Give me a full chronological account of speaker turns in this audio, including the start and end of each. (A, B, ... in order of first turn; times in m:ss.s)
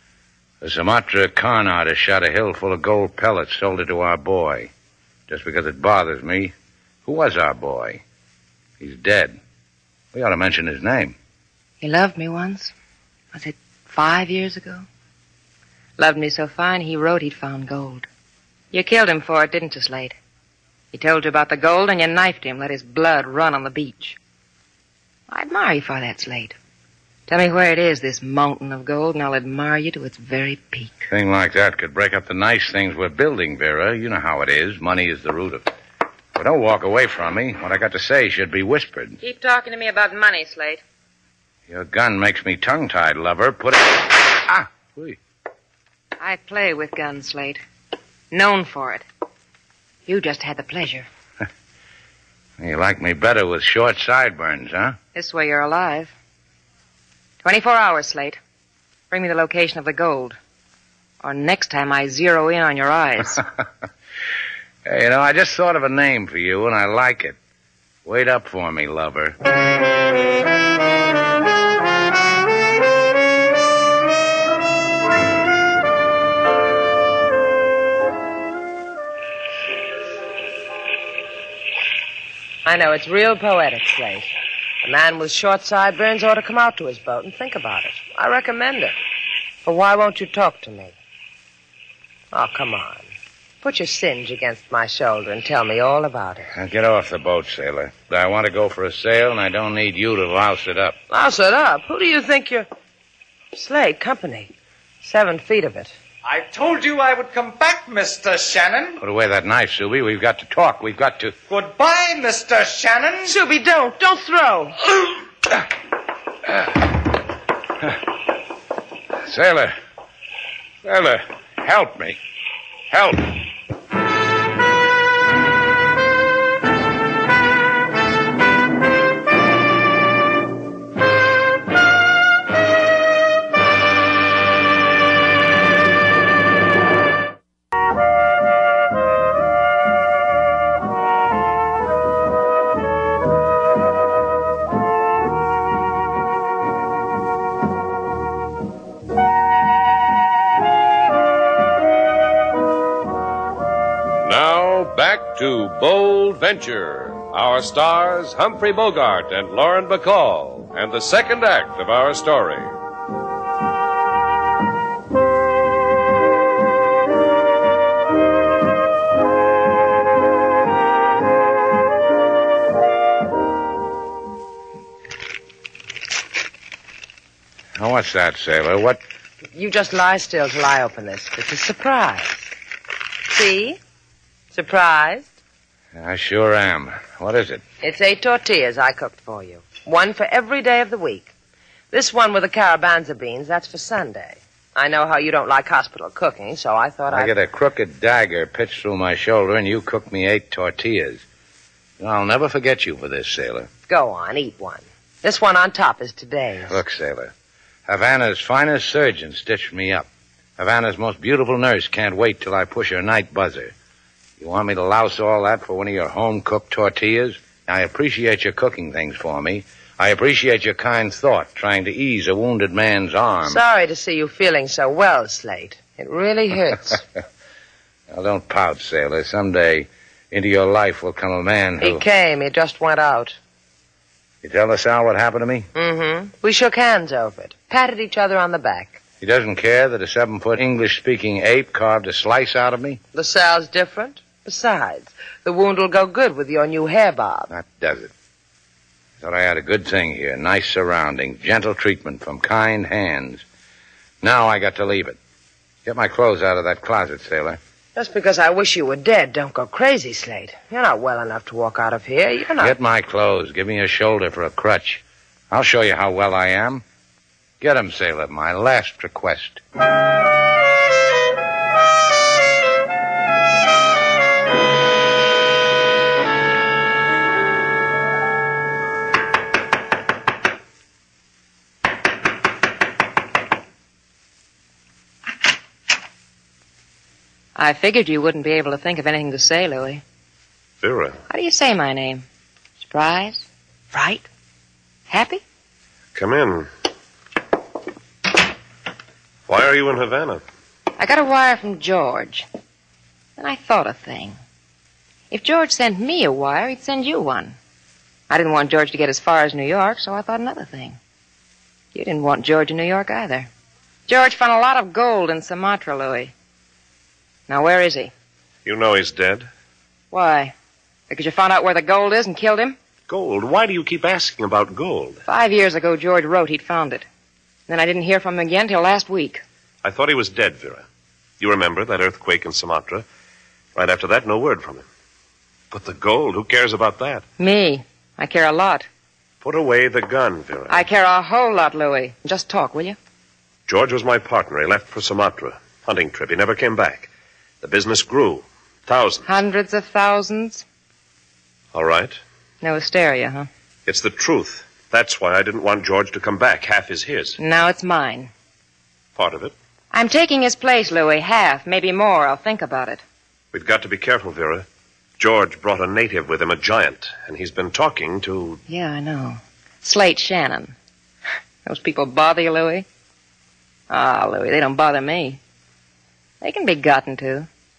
0:00.6-0:04.7 A
0:05.3-0:06.5 A
0:07.0-0:08.0 A
0:08.8-0:09.4 A
0:10.1-0:11.2 A
0:11.8-0:12.7 B
0:13.3-0:14.8 B
0:16.0-0:18.1 B
0:18.7-0:20.2 B
0:20.9-0:24.2 B
0:25.3-0:26.6 B
0:27.3-0:31.1 B
0:31.1-0:35.7 A
0:36.3-0:39.2 A
0:39.2-0:40.8 B
0:41.7-0:45.2 A
0:46.2-0:47.6 B
0:48.3-0:49.0 B
0:50.0-0:51.1 B
0:52.6-0:55.0 A
0:55.1-0:56.1 B
0:57.4-0:58.4 B
0:59.1-1:00.4 B
1:01.2-1:03.4 B
1:04.8-1:07.4 A
1:08.0-1:09.4 A
1:22.6-1:24.3 C
1:24.8-1:28.9 C
1:29.6-1:30.9 C
1:32.3-1:33.0 C
1:33.6-1:36.5 C
1:36.5-1:41.0 A
1:41.1-1:42.7 C
1:43.5-1:44.5 C
1:45.0-1:45.9 C
1:46.2-1:48.9 D
1:49.0-1:51.4 A
1:51.5-1:53.3 D
1:53.2-1:54.8 C
1:59.2-1:59.7 A
2:00.8-2:02.2 A
2:02.9-2:03.4 A
2:34.2-2:42.7 E
2:57.8-2:59.0 A
2:59.5-3:02.5 C
3:03.3-3:03.8 C
3:04.5-3:05.3 C
3:05.9-3:07.6 A
3:07.8-3:11.3 C
3:11.9-3:17.3 C
3:17.1-3:21.2 A
3:22.0-3:23.7 A
3:23.9-3:26.8 C
3:26.7-3:27.3 A
3:27.8-3:33.7 A
3:34.4-3:43.6 A
3:43.4-3:47.0 C
3:48.1-3:52.0 A
3:51.8-3:53.4 C
3:54.4-3:55.7 A
3:55.7-3:59.0 C
3:59.2-4:03.0 A
4:03.1-4:07.5 C
4:07.5-4:08.1 A
4:09.2-4:13.4 A
4:14.2-4:15.2 A
4:15.8-4:17.6 A
4:17.9-4:22.7 C
4:22.6-4:26.8 A
4:27.6-4:29.6 A
4:47.6-4:50.0 B
4:50.8-4:51.2 F
4:51.3-4:52.2 B
4:52.8-4:54.3 B
4:55.1-4:55.4 B
4:56.1-4:56.7 F
4:59.5-5:00.4 F
5:01.0-5:02.5 B
5:03.4-5:04.4 B
5:05.3-5:07.6 B
5:08.3-5:11.0 B
5:11.9-5:13.5 B
5:14.1-5:16.3 B
5:17.5-5:18.1 B
5:18.6-5:19.5 F
5:20.1-5:20.5 B
5:21.1-5:22.8 B
5:23.1-5:25.2 F
5:25.2-5:27.0 B
5:27.7-5:29.4 B
5:29.8-5:30.8 F
5:31.4-5:33.0 F
5:33.7-5:34.8 F
5:35.7-5:37.2 F
5:37.4-5:38.9 B
5:39.4-5:40.8 F
5:40.7-5:43.0 B
5:43.7-5:47.1 F
5:47.6-5:49.3 F
5:49.2-5:50.6 B
5:51.7-5:52.2 F
5:52.6-5:53.5 B
5:53.8-5:57.4 F
5:57.4-5:58.3 B
5:59.2-5:59.5 F
5:59.9-6:03.0 B
6:03.5-6:04.7 F
6:05.2-6:08.6 F
6:08.7-6:10.8 B
6:11.6-6:12.8 B
6:13.9-6:15.4 B
6:16.4-6:17.5 B